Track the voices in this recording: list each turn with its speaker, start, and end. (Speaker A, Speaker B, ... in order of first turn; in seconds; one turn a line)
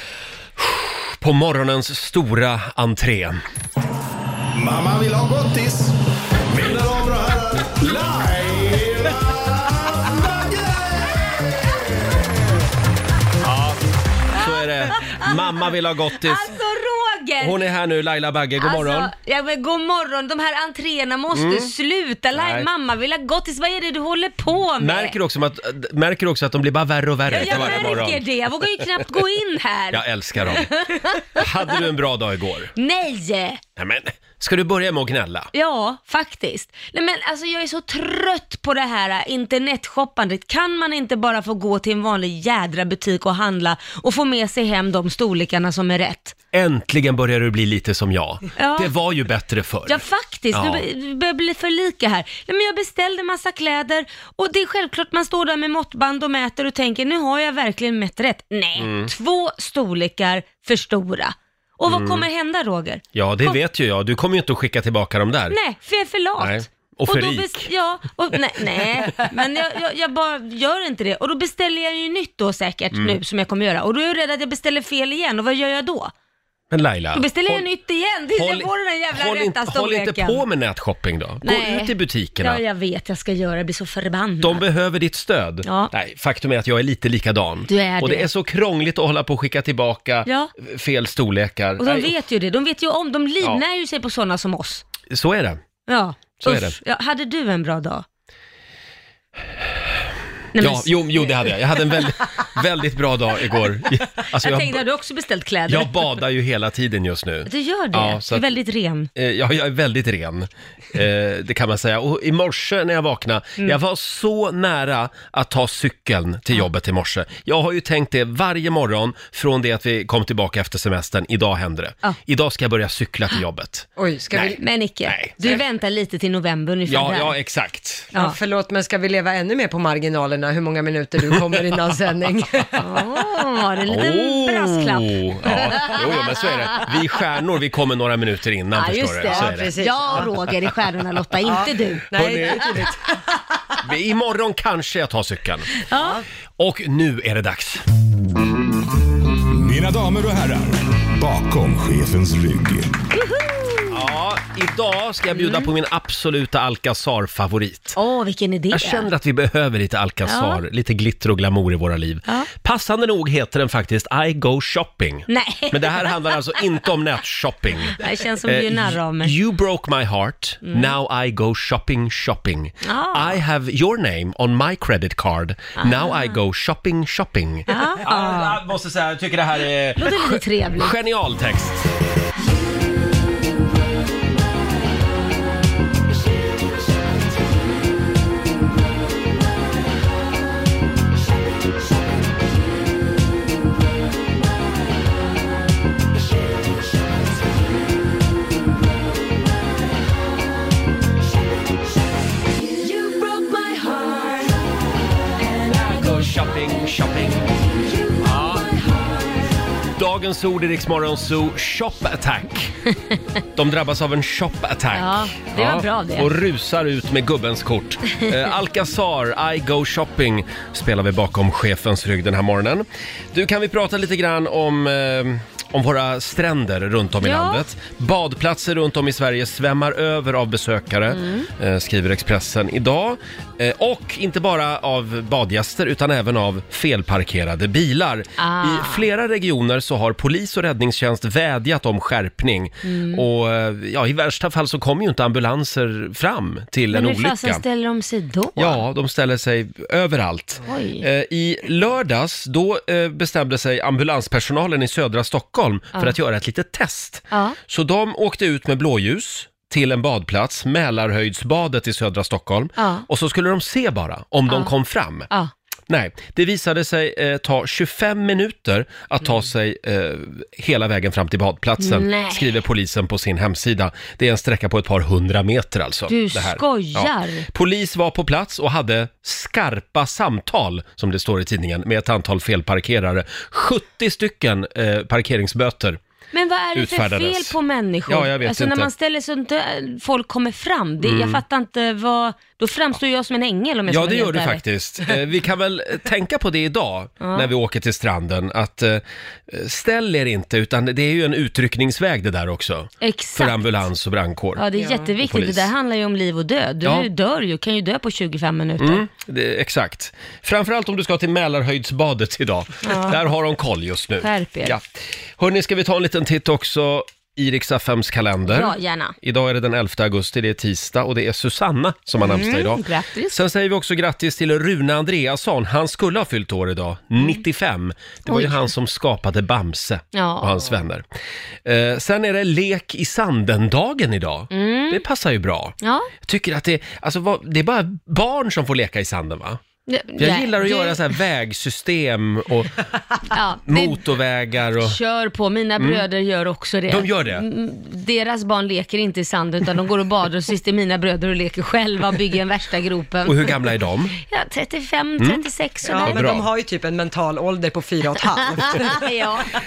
Speaker A: 0.6-3.4
Speaker B: 4.5-6.0
Speaker B: 6.5-12.1
Speaker A: 13.4-13.8
Speaker A: 14.3-16.5
Speaker C: 14.4-15.3
Speaker C: 16.1-17.6
Speaker A: 17.4-19.1
Speaker C: 18.6-25.2
Speaker A: 21.3-21.7
Speaker A: 22.3-22.7
Speaker A: 24.8-28.2
Speaker C: 27.3-31.8
Speaker A: 29.9-30.7
Speaker A: 31.4-32.7
Speaker C: 32.8-33.6
Speaker A: 33.8-35.5
Speaker C: 35.5-46.3
Speaker A: 46.5-50.9
Speaker C: 48.6-48.9
Speaker C: 49.9-63.6
Speaker A: 58.8-59.1
Speaker A: 61.9-62.3
Speaker A: 63.1-65.6
Speaker C: 65.5-76.1
Speaker A: 66.4-67.7
Speaker A: 72.9-73.2
Speaker A: 76.7-77.7
Speaker C: 77.1-80.4
Speaker A: 78.3-82.6
Speaker C: 81.4-84.6
Speaker A: 84.4-92.1
Speaker C: 85.6-85.9
Speaker C: 87.7-88.3
Speaker C: 90.2-90.5
Speaker C: 91.8-94.8
Speaker A: 95.1-95.6
Speaker C: 95.9-98.0
Speaker A: 96.4-96.8
Speaker C: 100.5-101.5
Speaker A: 100.6-104.8
Speaker C: 104.3-106.2
Speaker A: 105.7-108.5
Speaker C: 107.5-109.1
Speaker A: 109.1-125.6
Speaker D: 124.0-124.6
Speaker C: 124.6-127.4
Speaker A: 126.9-128.1
Speaker D: 128.1-132.7
Speaker C: 132.8-136.9
Speaker A: 133.9-139.7
Speaker C: 138.8-142.2
Speaker D: 139.2-140.3
Speaker D: 141.4-143.1
Speaker A: 142.1-142.8
Speaker A: 143.8-145.7
Speaker C: 145.9-146.2
Speaker D: 145.9-146.2
Speaker A: 146.6-147.8
Speaker B: 149.5-153.0
Speaker C: 153.1-154.0
Speaker A: 153.9-158.0
Speaker C: 155.3-155.7
Speaker C: 157.9-159.1
Speaker A: 158.7-181.8
Speaker C: 160.2-160.6
Speaker C: 165.3-166.2
Speaker C: 167.9-169.4
Speaker C: 170.6-170.9
Speaker C: 172.8-173.4
Speaker C: 175.8-176.3
Speaker C: 177.7-178.6
Speaker C: 180.0-180.9
Speaker C: 203.0-204.4
Speaker A: 205.7-207.5
Speaker A: 208.2-208.7
Speaker A: 209.9-212.8
Speaker A: 213.6-247.6
Speaker C: 214.9-216.3
Speaker C: 227.2-227.7
Speaker C: 231.1-231.5
Speaker C: 238.4-239.1
Speaker C: 242.8-243.2
Speaker C: 246.9-248.8
Speaker A: 248.6-265.3
Speaker C: 250.7-251.0
Speaker C: 257.3-257.6
Speaker C: 262.8-263.1
Speaker C: 264.5-264.7
Speaker A: 265.9-286.0
Speaker C: 271.8-272.6
Speaker C: 276.1-277.4
Speaker C: 286.3-294.6
Speaker A: 286.8-288.9
Speaker A: 291.0-291.4
Speaker A: 293.9-304.6
Speaker C: 297.2-297.5
Speaker C: 303.0-303.8
Speaker C: 304.6-309.0
Speaker A: 305.2-305.7
Speaker A: 306.8-307.1
Speaker A: 308.8-314.8
Speaker C: 312.8-313.2
Speaker C: 314.2-314.8
Speaker A: 315.4-331.0
Speaker C: 318.4-319.1
Speaker C: 322.2-323.4
Speaker C: 328.3-328.6
Speaker C: 330.1-330.7
Speaker A: 331.6-339.6
Speaker C: 334.5-335.0
Speaker C: 335.8-336.1
Speaker C: 339.9-341.1
Speaker A: 340.2-342.8
Speaker C: 343.3-344.0
Speaker A: 343.6-345.0
Speaker C: 344.8-353.6
Speaker A: 345.8-346.0
Speaker A: 346.9-347.4
Speaker A: 353.2-354.2
Speaker C: 354.3-356.2
Speaker D: 355.8-359.1
Speaker A: 356.0-356.4
Speaker C: 358.6-359.5